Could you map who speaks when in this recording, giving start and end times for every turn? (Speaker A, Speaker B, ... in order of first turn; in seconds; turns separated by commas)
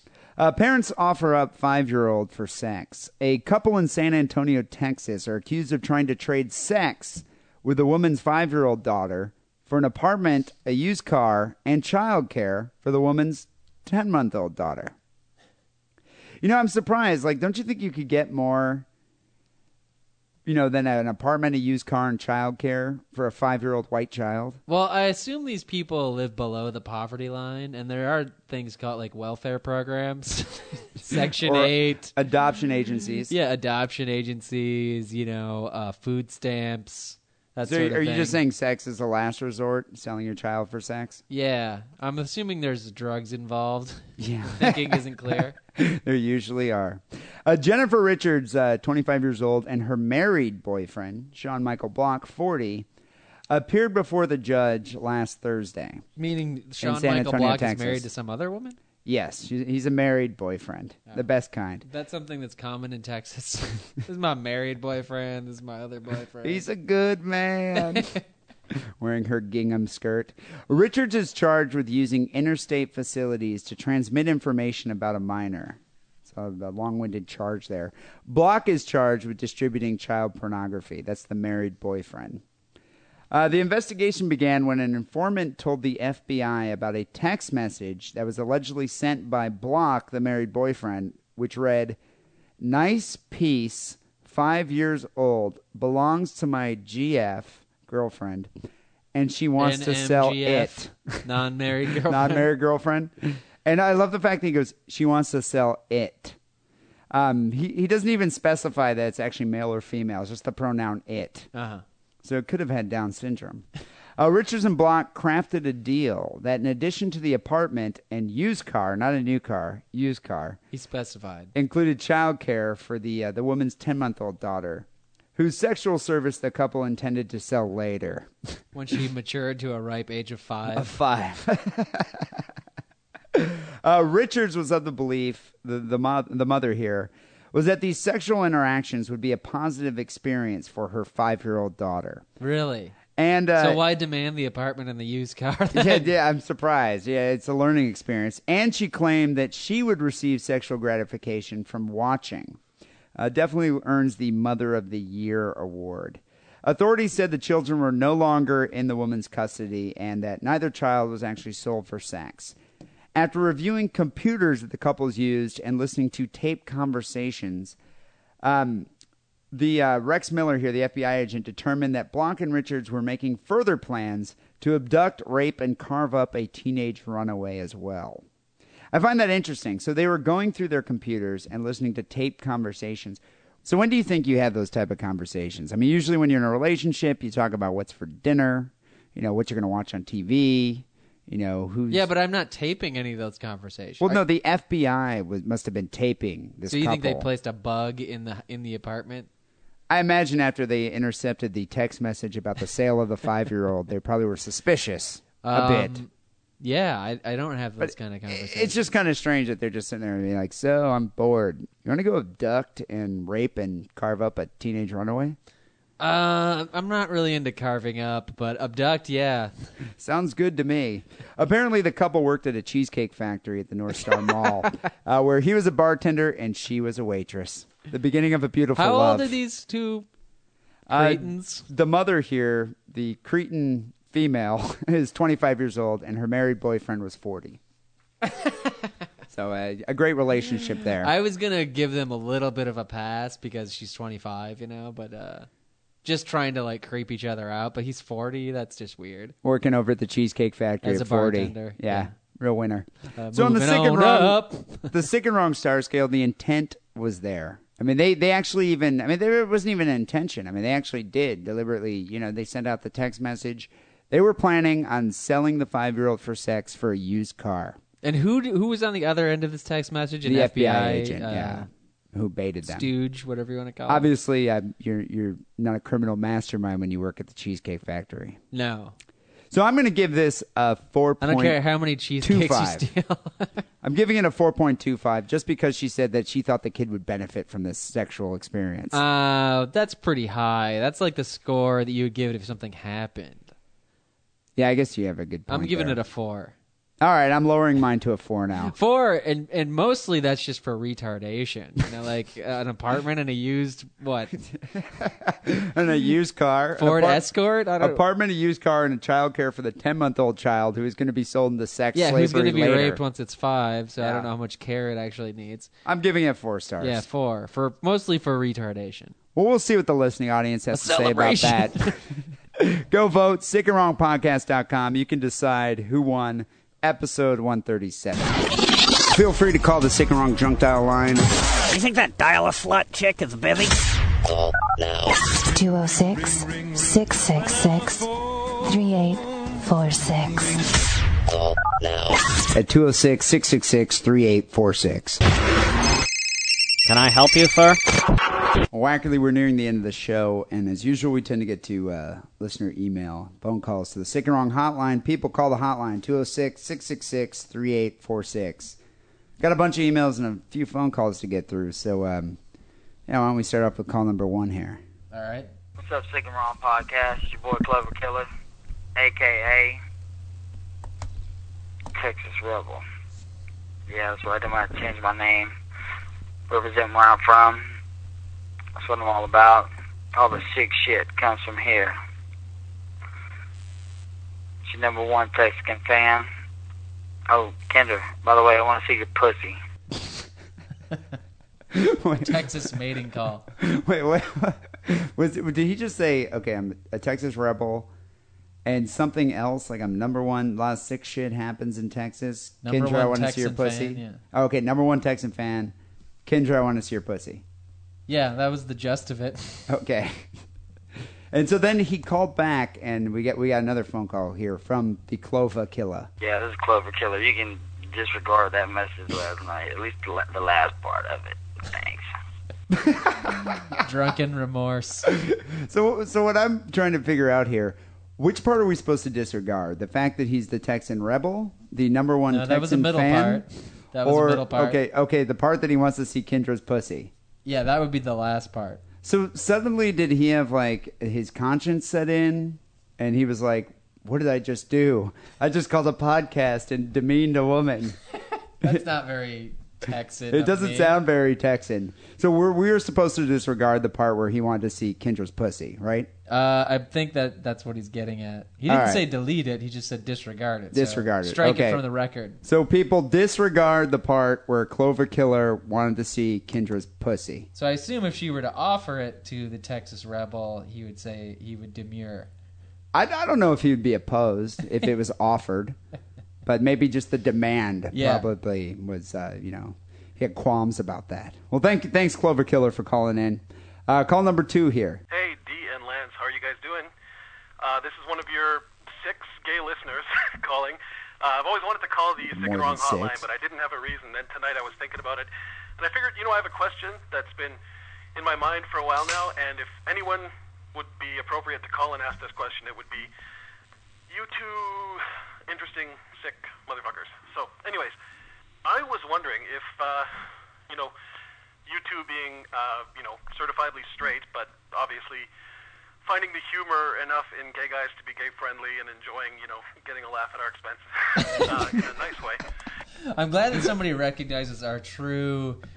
Speaker A: 0.4-14.9, Speaker A: 16.4-18.9, Speaker A: 20.4-24.6, Speaker B: 24.7-32.1, Speaker A: 31.1-33.3, Speaker B: 33.3-38.4, Speaker A: 37.6-41.2, Speaker B: 41.3-45.6, Speaker A: 44.2-52.9, Speaker A: 53.5-56.0, Speaker B: 56.2-58.8, Speaker A: 56.8-58.1, Speaker A: 59.0-61.9, Speaker B: 61.8-66.7, Speaker A: 66.4-68.1, Speaker A: 69.0-82.4, Speaker A: 83.3-92.0, Speaker A: 92.6-98.5, Speaker A: 99.1-101.3, Speaker B: 99.6-102.5, Speaker A: 101.9-106.4, Speaker A: 107.1-111.5, Speaker B: 111.5-111.8, Speaker A: 112.2-113.7, Speaker A: 114.2-120.6, Speaker B: 120.7-121.5, Speaker A: 121.5-128.3, Speaker B: 128.7-130.9, Speaker A: 130.7-132.4, Speaker A: 133.3-142.3, Speaker B: 142.4-143.0, Speaker A: 143.2-143.8, Speaker B: 143.6-146.1, Speaker A: 145.8-152.6, Speaker A: 153.2-162.6, Speaker A: 163.2-167.8, Speaker A: 168.4-168.9, Speaker A: 169.5-178.2, Speaker A: 178.9-192.1, Speaker B: 191.9-194.2, Speaker A: 194.0-197.3, Speaker B: 196.7-199.3, Speaker A: 199.9-206.0, Speaker B: 205.4-206.1, Speaker B: 206.6-208.8, Speaker A: 207.8-215.4, Speaker B: 216.0-219.5, Speaker A: 220.0-229.4, Speaker B: 228.8-230.1, Speaker A: 230.9-237.6, Speaker B: 230.9-231.7, Speaker B: 238.2-238.9, Speaker A: 239.3-241.1, Speaker B: 241.0-245.5, Speaker B: 246.0-249.3, Speaker A: 249.4-267.8, Speaker B: 250.8-252.1, Speaker B: 253.2-254.9, Speaker B: 268.0-271.7, Speaker A: 270.2-272.9, Speaker B: 272.7-274.1, Speaker A: 273.9-278.4, Speaker B: 278.5-278.9, Speaker A: 279.5-281.6, Speaker B: 281.2-283.6, Speaker A: 282.2-282.9, Speaker A: 283.8-289.0, Speaker B: 288.9-293.5, Speaker A: 294.6-296.0, Speaker B: 295.5-296.6, Speaker A: 297.0-298.8, Speaker B: 298.6-304.3, Speaker A: 304.5-307.2, Speaker B: 306.8-308.0, Speaker A: 307.8-313.0, Speaker B: 311.9-315.7, Speaker A: 314.0-314.3, Speaker A: 315.9-317.1, Speaker B: 316.8-319.1, Speaker A: 319.4-328.4, Speaker B: 320.7-321.9, Speaker A: 329.1-331.3, Speaker C: 331.7-333.8, Speaker D: 335.5-340.6, Speaker A: 342.5-345.2, Speaker C: 346.9-347.8, Speaker A: 348.7-358.8, Speaker A: 359.4-362.4, Speaker A: 363.1-364.8, Speaker B: 365.1-365.5, Speaker E: 365.8-368.3, Speaker E: 369.0-369.8, Speaker E: 371.9-372.8, Speaker E: 373.9-375.5, Speaker E: 376.5-377.7, Speaker E: 378.8-381.9, Speaker E: 384.6-386.3, Speaker E: 387.3-389.6, Speaker A: 390.0-390.2, Speaker A: 391.7-392.6, Speaker B: 392.2-393.5, Speaker A: 393.5-397.9, Speaker A: 398.6-405.7, Speaker B: 402.6-404.2, Speaker A: 406.3-407.4, Speaker B: 408.1-409.7, Speaker A: 409.7-410.3, Speaker A: 411.3-416.1, Speaker E: 416.2-422.1, Speaker A: 422.7-423.8, Speaker B: 423.8-425.1, Speaker A: 425.1-433.5, Speaker B: 432.3-434.8, Speaker A: 434.0-437.1, Speaker B: 437.4-438.8, Speaker A: 439.0-448.0, Speaker B: 448.6-451.0, Speaker A: 450.3-456.1, Speaker B: 456.3-462.4, Speaker A: 458.7-459.1, Speaker A: 460.7-461.8, Speaker A: 462.4-467.5, Speaker B: 467.6-472.3, Speaker A: 472.9-475.8, Speaker A: 476.4-485.0, Speaker B: 477.9-478.3, Speaker F: 485.1-486.9, Speaker F: 487.6-497.6, Speaker A: 492.3-493.2, Speaker F: 498.1-503.1, Speaker F: 504.1-507.9, Speaker F: 508.6-510.1, Speaker F: 510.7-510.9, Speaker F: 511.7-515.3, Speaker F: 516.0-522.4, Speaker B: 521.2-521.5, Speaker B: 523.1-525.6